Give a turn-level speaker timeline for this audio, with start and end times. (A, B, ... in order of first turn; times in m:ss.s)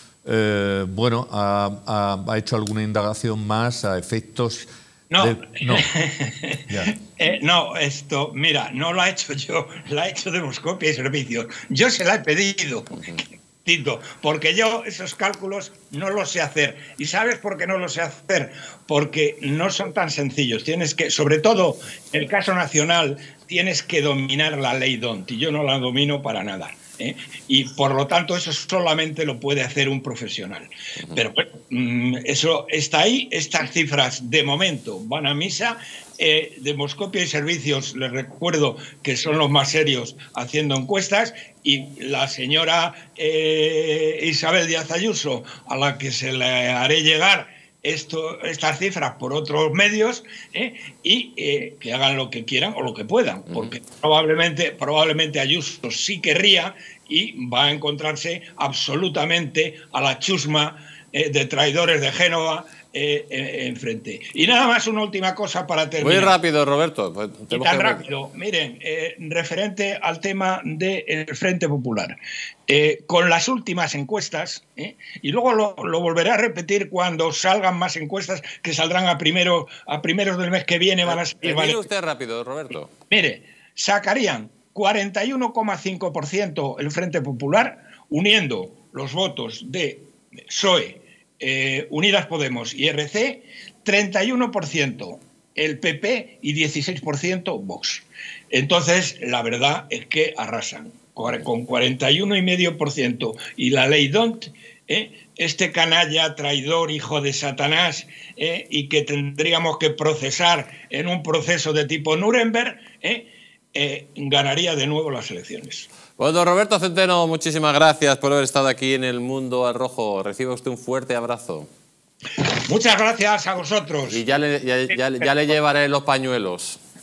0:00.2-0:05.9 A
0:05.1-0:06.6 B
0:06.7-0:06.9 A
0:07.2-1:06.4 B
1:06.0-1:08.0 C
1:07.5-1:12.2 B
1:12.7-1:21.8 B
1:21.1-1:22.9 C
1:23.1-1:55.9 B
1:56.2-2:01.7 C
2:02.4-2:04.2 B
2:04.1-2:06.8 C